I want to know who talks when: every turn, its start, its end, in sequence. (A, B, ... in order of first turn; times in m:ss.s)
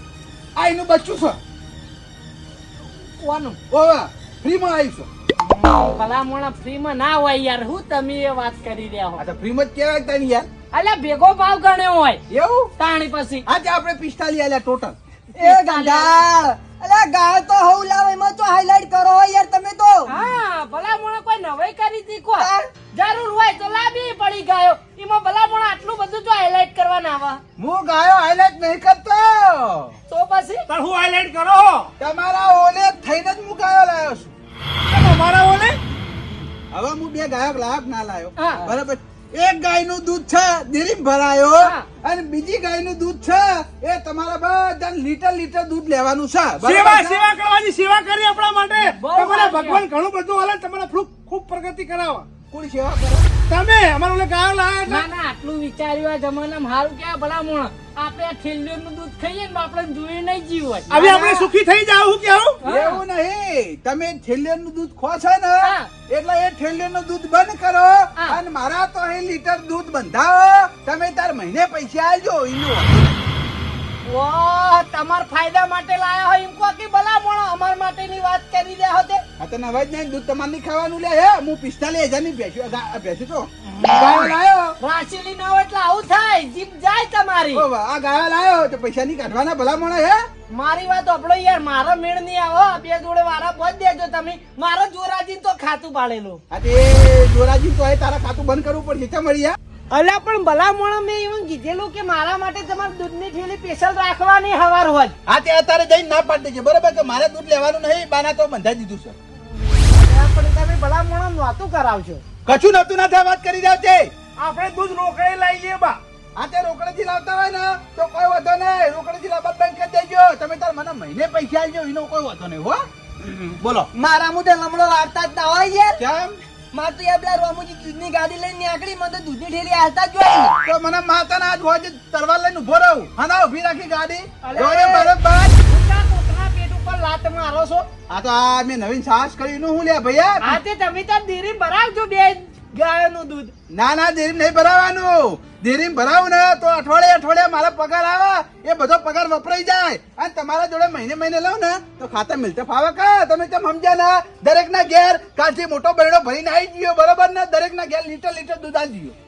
0:00.6-0:01.4 A
0:03.2-0:03.6 B
0:03.7-0:05.1 A
0:05.8-0:09.2 B
0:09.2-0:10.5 A
0:10.7-0:12.2 B
0:12.3-0:12.7 A
0:12.8-0:13.4 B
0:13.5-0:15.0 A
0:15.4-0:16.3 B
0:15.4-0:20.1 C
0:20.1-0:27.4 B
0:22.4-0:22.7 C
0:27.6-0:30.0 A
0:30.1-0:30.7 B
0:30.7-0:31.9 D
0:32.0-0:34.3 A
0:34.9-0:35.8 D
0:35.9-0:47.2 A
0:38.4-0:38.7 B
0:41.6-0:41.9 B
0:46.6-0:52.3 D
0:48.8-0:49.8 B
0:52.5-0:53.3 A
0:53.5-0:55.1 D
0:54.9-1:01.5 B
1:00.9-1:02.6 D
1:02.6-1:03.0 B
1:02.6-1:13.2 A
1:05.6-1:05.9 B
1:14.1-1:19.2 B
1:19.4-1:24.8 A
1:23.9-1:27.7 B
1:27.5-1:30.3 A
1:30.5-1:36.4 B
1:36.5-1:39.6 A
1:39.9-1:45.2 B
1:45.3-1:49.2 A
1:49.4-1:52.2 B
1:52.5-1:54.1 A
1:54.4-1:56.0 D
1:56.4-2:03.9 A
2:03.9-2:06.0 C
2:06.0-2:06.4 A
2:06.7-2:10.6 C
2:10.6-2:15.6 A
2:14.4-2:15.1 B
2:15.6-2:17.9 B
2:18.1-2:20.6 A
2:20.4-2:23.5 B
2:23.7-2:39.2 A